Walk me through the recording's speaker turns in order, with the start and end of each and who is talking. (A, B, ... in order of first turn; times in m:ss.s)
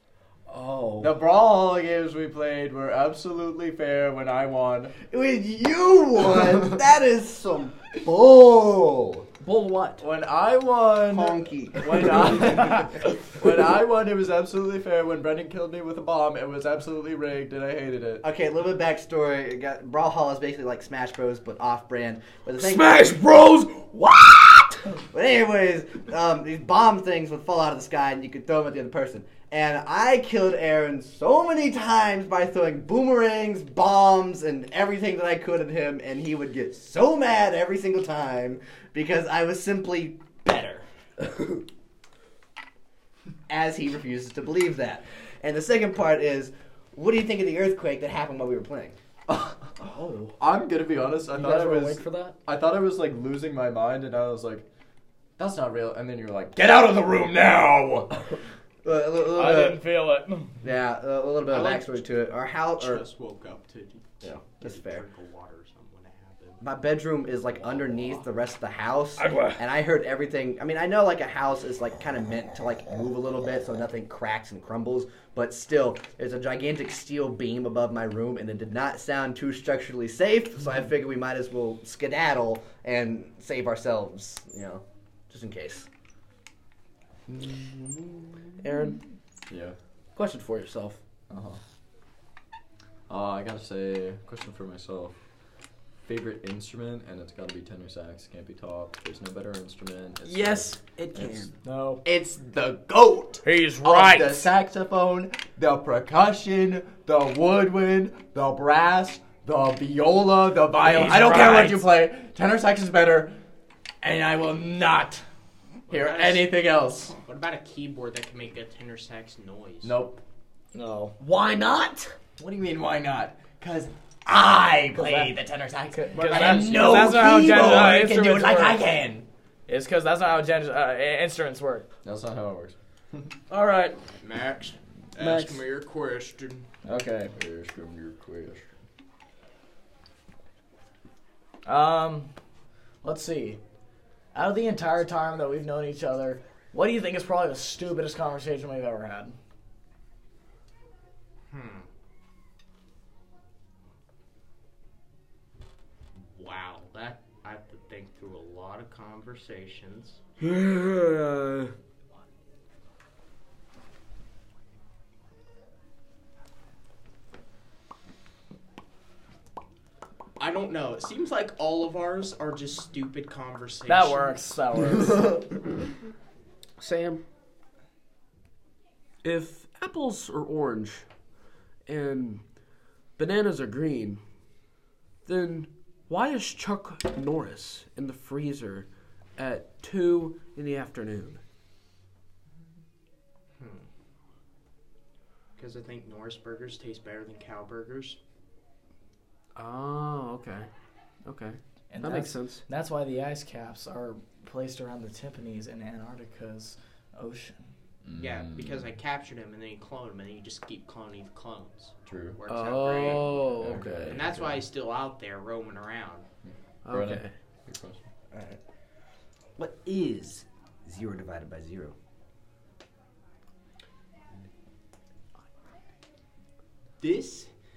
0:00.5-0:01.2 A
0:01.0-0:05.0 B
0:05.1-0:09.3 C
0:09.4-0:10.0 A
0:10.0-0:18.2 B
0:11.1-0:12.8 C
0:18.2-0:23.3 C
0:22.6-0:24.8 A
0:25.1-0:40.8 C
0:43.5-0:49.0 C
0:49.3-0:49.6 B
0:49.8-0:50.4 A
0:50.4-0:54.7 B
0:51.3-0:52.4 A
0:55.4-0:58.1 B
0:58.8-0:59.8 C
0:59.3-1:00.5 D
1:00.6-1:03.0 C
1:01.5-1:06.6 E
1:04.2-1:05.0 C
1:06.6-1:25.9 C
1:09.2-1:09.6 A
1:28.6-1:29.0 A
1:29.5-1:29.8 B
1:30.2-1:31.0 A
1:31.3-1:31.6 B
1:33.1-1:35.2 B
1:36.0-1:41.5 B
1:40.2-1:41.5 A
1:41.6-1:42.0 D
1:42.0-1:53.3 B
1:43.4-1:44.5 D
1:50.8-1:51.8 D
1:54.0-1:55.2 B
1:55.9-1:56.5 E
1:55.9-1:57.2 B
1:57.2-2:00.0 E
1:59.8-2:00.2 B
2:00.7-2:01.2 D
2:01.2-2:02.1 A
2:02.4-2:09.3 B
2:05.0-2:05.4 D
2:05.9-2:08.9 D
2:06.2-2:07.1 E
2:06.2-2:07.8 C
2:09.7-2:11.9 D
2:12.0-2:12.8 B
2:13.5-2:14.0 A
2:14.2-2:16.7 E
2:15.2-2:15.6 A
2:16.8-2:17.3 D
2:17.4-2:18.7 B
2:21.6-2:22.3 D
2:23.0-2:23.6 D
2:24.3-2:29.4 D
2:31.5-2:31.9 E
2:36.3-2:40.2 E
2:40.4-2:41.7 A
2:50.4-2:54.4 E
2:53.9-2:55.4 D
2:56.8-2:57.2 A
2:59.2-3:01.0 A
3:01.9-3:02.4 A
3:03.2-3:04.2 A
3:05.3-3:11.4 A
3:13.6-3:13.9 E
3:15.6-3:18.2 E
3:19.6-3:20.7 A
3:21.2-3:22.6 A
3:21.9-3:27.6 D
3:28.0-3:28.9 B
3:28.2-3:36.3 E
3:32.1-3:32.4 B
3:32.5-3:34.2 A
3:33.5-3:34.6 B
3:36.5-3:38.1 B
3:36.8-3:37.3 A
3:38.3-3:38.6 C
3:39.6-3:41.9 C
3:47.0-3:47.5 E